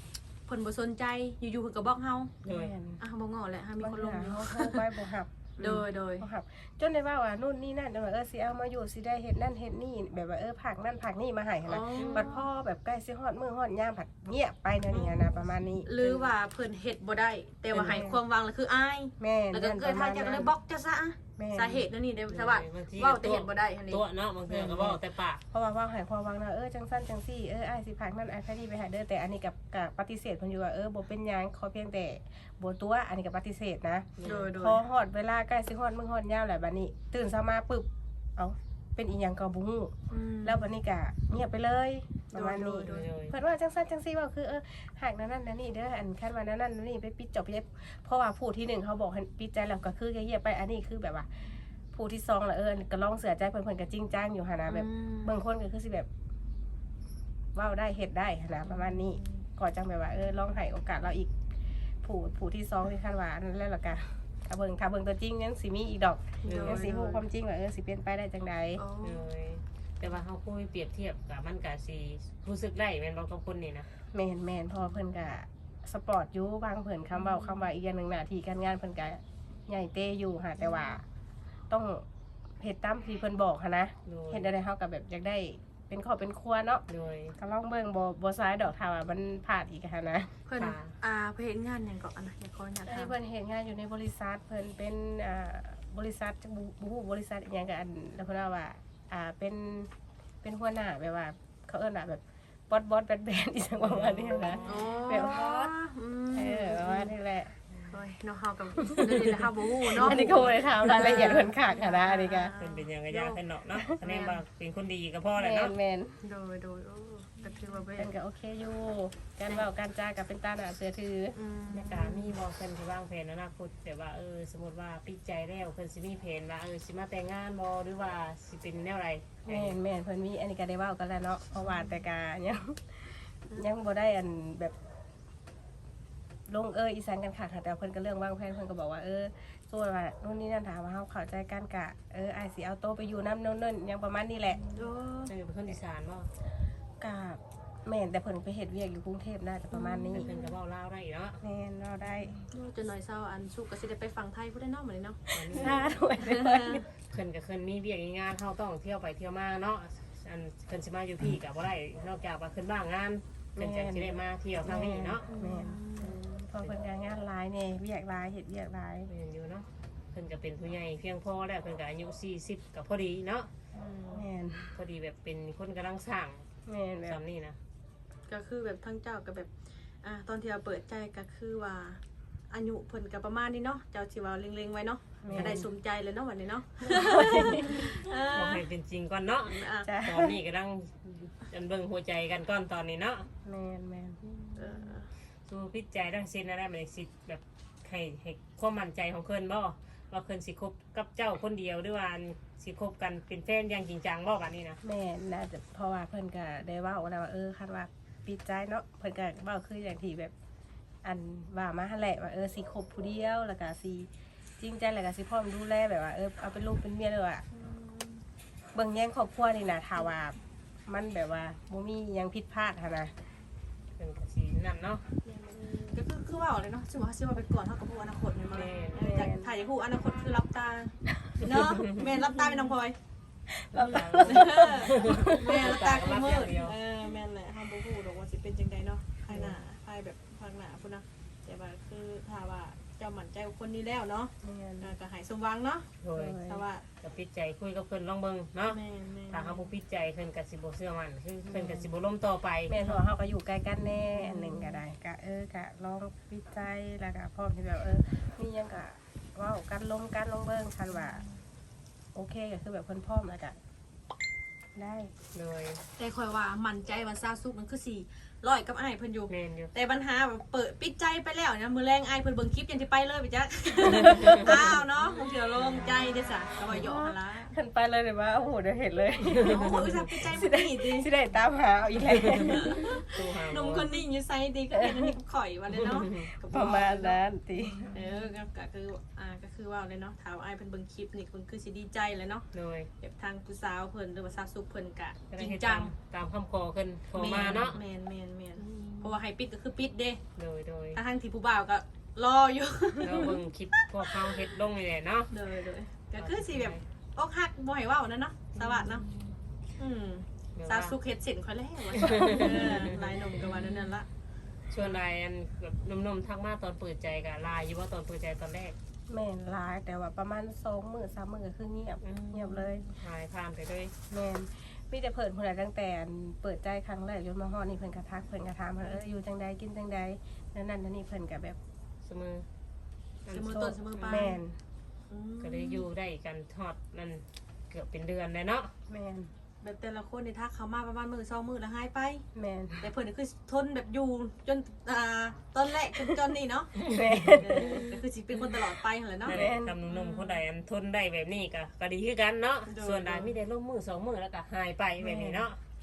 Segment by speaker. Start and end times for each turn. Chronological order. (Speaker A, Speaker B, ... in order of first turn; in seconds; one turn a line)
Speaker A: 0.5-2.3
Speaker B: 2.4-2.7
Speaker C: 2.5-3.0
Speaker A: 3.0-4.9
Speaker C: 3.8-15.9
Speaker A: 5.6-6.2
Speaker A: 11.6-12.5
Speaker B: 12.0-12.3
Speaker B: 14.9-15.4
Speaker A: 15.8-24.0
Speaker B: 16.0-16.3
Speaker C: 17.7-18.2
Speaker C: 19.2-20.5
Speaker C: 21.4-21.9
Speaker B: 22.3-25.4
Speaker C: 24.5-56.1
Speaker B: 34.2-34.5
Speaker A: 34.2-34.8
Speaker A: 40.1-40.6
Speaker A: 42.3-43.1
Speaker B: 42.9-43.4
Speaker A: 54.7-55.4
Speaker C: 57.5-61.3
Speaker A: 58.7-59.4
Speaker C: 62.0-68.8
Speaker B: 66.4-66.9
Speaker A: 66.4-67.2
Speaker A: 68.8-69.3
Speaker B: 69.0-73.9
Speaker C: 74.1-81.0
Speaker A: 77.3-77.6
Speaker C: 81.7-82.0
Speaker C: 82.6-86.8
Speaker B: 84.0-84.5
Speaker B: 86.9-87.3
Speaker C: 87.4-90.3
Speaker A: 90.5-93.1
Speaker B: 90.6-91.0
Speaker C: 92.8-99.9
Speaker C: 100.4-105.7
Speaker B: 103.8-104.9
Speaker A: 104.7-107.1
Speaker C: 106.3-107.5
Speaker A: 107.9-113.4
Speaker C: 109.9-112.5
Speaker B: 110.0-111.4
Speaker B: 112.6-115.7
Speaker A: 114.0-114.4
Speaker C: 115.4-116.2
Speaker A: 116.2-118.1
Speaker C: 118.0-121.4
Speaker A: 121.3-122.3
Speaker B: 121.7-129.8
Speaker C: 129.4-134.7
Speaker A: 131.6-132.0
Speaker C: 136.5-144.7
Speaker A: 144.7-145.3
Speaker B: 145.3-146.3
Speaker C: 147.0-150.3
Speaker A: 149.7-150.6
Speaker B: 150.1-151.4
Speaker C: 151.4-152.4
Speaker A: 152.4-156.8
Speaker C: 155.3-156.8
Speaker B: 155.3-156.0
Speaker B: 157.1-165.3
Speaker C: 163.6-169.1
Speaker A: 165.3-166.2
Speaker B: 166.0-166.7
Speaker B: 169.1-173.5
Speaker A: 173.7-174.2
Speaker C: 174.1-174.8
Speaker B: 174.7-176.4
Speaker C: 176.7-177.2
Speaker B: 177.1-177.6
Speaker A: 178.3-179.5
Speaker A: 180.0-188.7
Speaker C: 185.2-185.7
Speaker B: 185.3-185.6
Speaker C: 186.8-187.8
Speaker B: 187.3-193.3
Speaker A: 189.5-189.9
Speaker C: 189.8-190.3
Speaker C: 193.4-194.2
Speaker A: 194.6-195.1
Speaker B: 195.5-204.8
Speaker C: 204.8-210.3
Speaker C: 211.0-217.4
Speaker A: 217.5-218.2
Speaker C: 218.7-223.1
Speaker B: 224.0-225.0
Speaker A: 225.9-233.0
Speaker B: 228.5-229.3
Speaker C: 228.9-229.5
Speaker B: 231.5-232.1
Speaker C: 233.5-235.6
Speaker B: 233.7-236.8
Speaker A: 234.2-246.9
Speaker C: 244.4-244.9
Speaker B: 246.0-246.4
Speaker C: 246.1-246.6
Speaker B: 247.0-252.7
Speaker A: 248.7-249.6
Speaker C: 251.4-251.9
Speaker C: 252.7-261.2
Speaker A: 252.7-253.1
Speaker A: 254.1-254.8
Speaker C: 262.1-263.6
Speaker C: 264.8-265.1
Speaker B: 265.3-265.8
Speaker A: 266.0-277.5
Speaker B: 269.3-269.7
Speaker B: 274.0-274.6
Speaker C: 276.7-283.0
Speaker A: 279.4-281.1
Speaker B: 282.2-283.9
Speaker A: 282.4-287.2
Speaker C: 284.7-285.1
Speaker B: 285.7-286.3
Speaker C: 286.5-287.9
Speaker A: 287.9-292.5
Speaker B: 292.5-292.9
Speaker A: 293.0-295.9
Speaker B: 295.3-297.8
Speaker A: 297.1-300.2
Speaker B: 300.4-301.0
Speaker A: 300.9-304.6
Speaker B: 303.0-305.3
Speaker A: 305.3-309.1
Speaker B: 306.2-306.8
Speaker A: 309.8-314.1
Speaker B: 310.6-311.0
Speaker B: 311.9-313.5
Speaker B: 314.7-318.8
Speaker C: 319.1-322.9
Speaker B: 322.0-323.9
Speaker C: 324.1-331.6
Speaker B: 332.0-332.4
Speaker B: 333.2-334.4
Speaker A: 333.3-334.4
Speaker C: 333.5-334.6
Speaker A: 335.1-335.9
Speaker B: 335.4-338.7
Speaker C: 338.9-339.3
Speaker A: 339.6-342.2
Speaker C: 342.3-342.9
Speaker A: 342.8-350.4
Speaker C: 346.9-347.9
Speaker B: 347.4-347.8
Speaker B: 349.2-355.6
Speaker C: 349.3-349.8
Speaker A: 352.7-353.3
Speaker C: 355.0-355.4